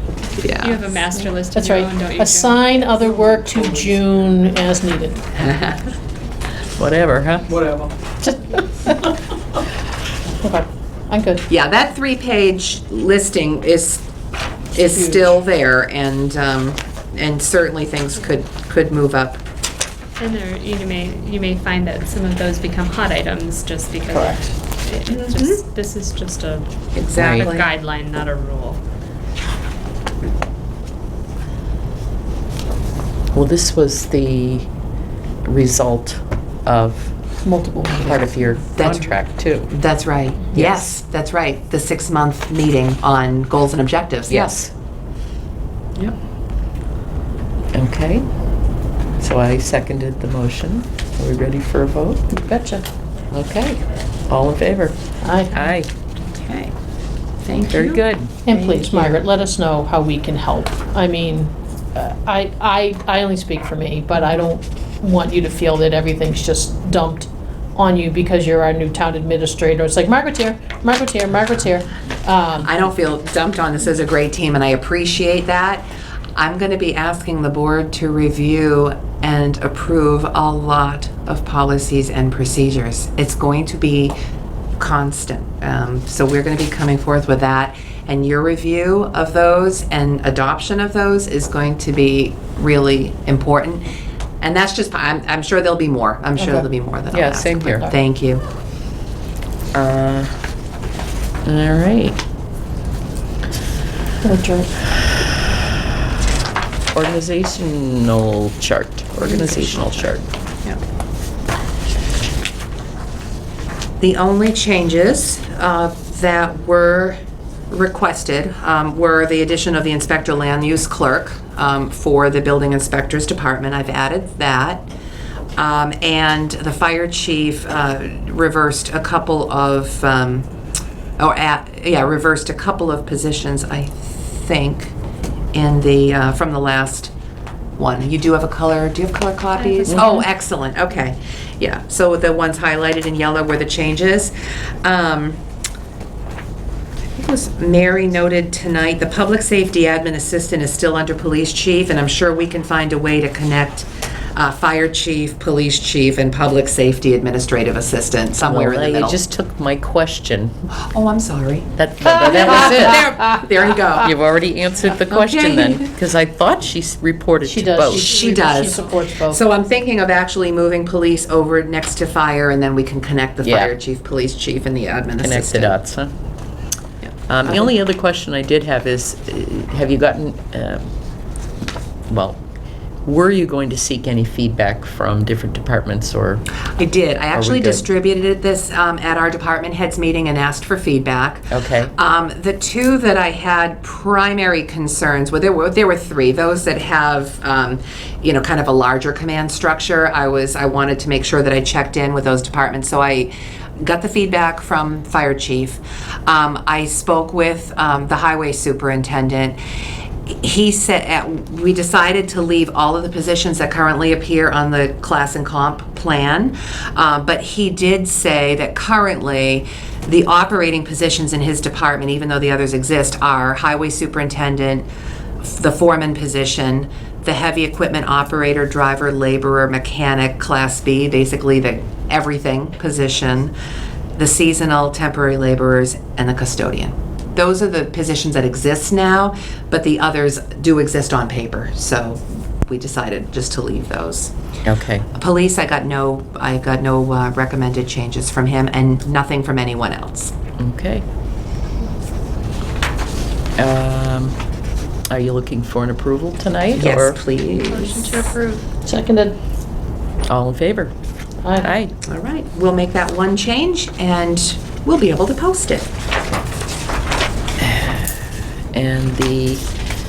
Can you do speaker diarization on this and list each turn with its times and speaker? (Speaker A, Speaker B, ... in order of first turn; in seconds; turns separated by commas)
Speaker A: 0.4-0.9, Speaker B: 0.6-2.8, Speaker C: 1.2-5.2, Speaker D: 2.9-4.7, Speaker A: 5.3-5.9, Speaker E: 6.8-7.5, Speaker D: 7.5-7.9, Speaker C: 8.2-9.1, Speaker C: 10.4-11.4, Speaker A: 11.5-14.0, Speaker A: 14.7-19.4, Speaker C: 14.9-15.3, Speaker B: 20.2-28.8, Speaker C: 24.1-24.5, Speaker A: 25.1-25.6, Speaker A: 26.9-27.7, Speaker E: 27.2-27.5, Speaker E: 33.3-34.7, Speaker E: 35.5-37.1, Speaker C: 37.4-38.4, Speaker E: 38.0-39.7, Speaker A: 38.8-39.2, Speaker A: 39.7-44.5, Speaker E: 40.5-41.0, Speaker E: 44.3-44.7, Speaker E: 47.7-48.2, Speaker E: 49.2-52.3, Speaker C: 52.3-52.9, Speaker E: 53.3-55.0, Speaker C: 55.2-55.7, Speaker E: 55.5-55.9, Speaker A: 56.2-56.7, Speaker A: 57.5-58.0, Speaker E: 57.7-58.3, Speaker C: 58.5-72.8, Speaker A: 72.6-84.2, Speaker A: 84.8-93.8, Speaker A: 94.4-98.4, Speaker C: 96.4-96.7, Speaker E: 97.1-97.9, Speaker E: 99.7-100.3, Speaker E: 101.5-102.2, Speaker C: 104.2-104.7, Speaker E: 106.9-110.2, Speaker A: 109.2-110.8, Speaker A: 114.0-117.2, Speaker A: 117.7-124.9, Speaker A: 125.6-130.5, Speaker A: 131.2-134.9, Speaker A: 135.5-137.1, Speaker A: 137.8-144.3, Speaker B: 139.5-140.2, Speaker E: 139.9-140.2, Speaker A: 144.8-145.4, Speaker A: 147.1-159.2, Speaker E: 158.4-160.6, Speaker A: 160.9-164.1, Speaker E: 161.8-163.1, Speaker E: 164.0-168.1, Speaker A: 165.1-165.9, Speaker C: 167.4-169.4, Speaker A: 167.9-175.8, Speaker E: 173.4-173.7, Speaker E: 175.2-176.1, Speaker E: 177.3-180.9, Speaker E: 182.1-182.4, Speaker E: 183.1-186.4, Speaker A: 186.8-209.6, Speaker E: 187.3-187.9, Speaker E: 191.5-191.9, Speaker A: 210.3-224.9, Speaker A: 225.4-233.5, Speaker A: 234.2-244.3, Speaker E: 244.6-245.1, Speaker A: 245.1-250.3, Speaker E: 250.6-251.0, Speaker E: 253.6-254.4, Speaker E: 255.1-257.2, Speaker A: 256.8-258.3, Speaker B: 257.7-258.6, Speaker C: 258.8-259.4, Speaker E: 260.3-260.9, Speaker C: 261.4-261.8, Speaker E: 261.5-261.9, Speaker A: 262.0-265.9, Speaker E: 267.6-268.1, Speaker E: 268.7-269.6